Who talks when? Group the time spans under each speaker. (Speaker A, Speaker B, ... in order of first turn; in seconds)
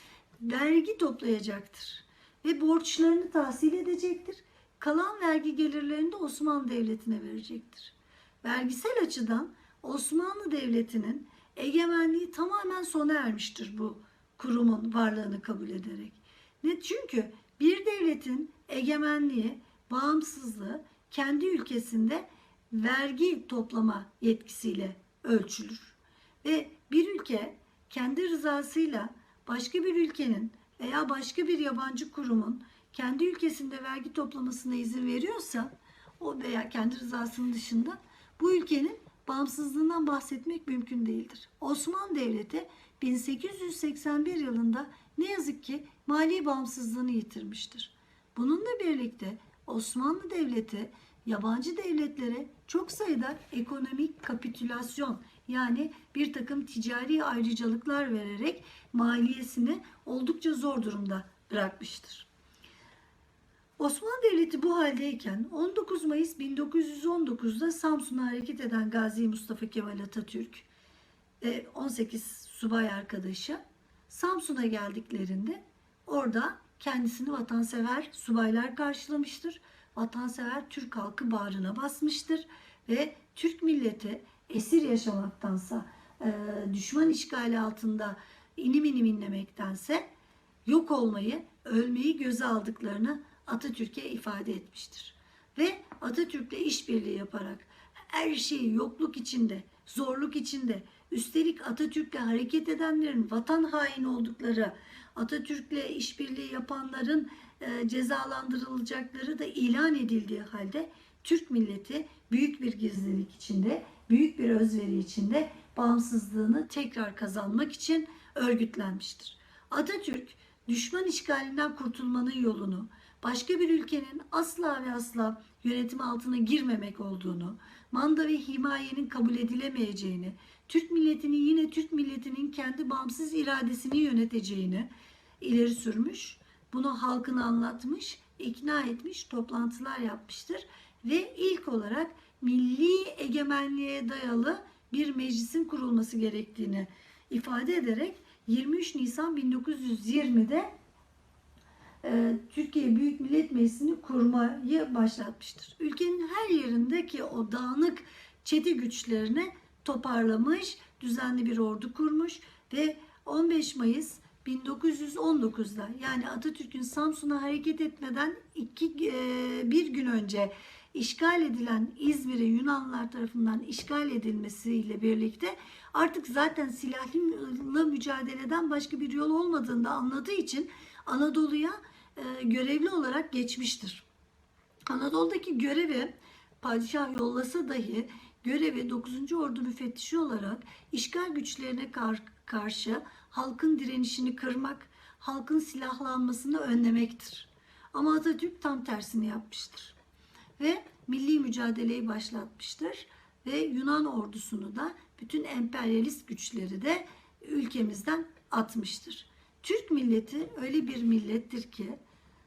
Speaker A: 0.4-62.3, 63.8-70.7, 71.4-90.1, 90.7-150.7, 152.0-184.1, 184.9-200.0, 200.6-212.0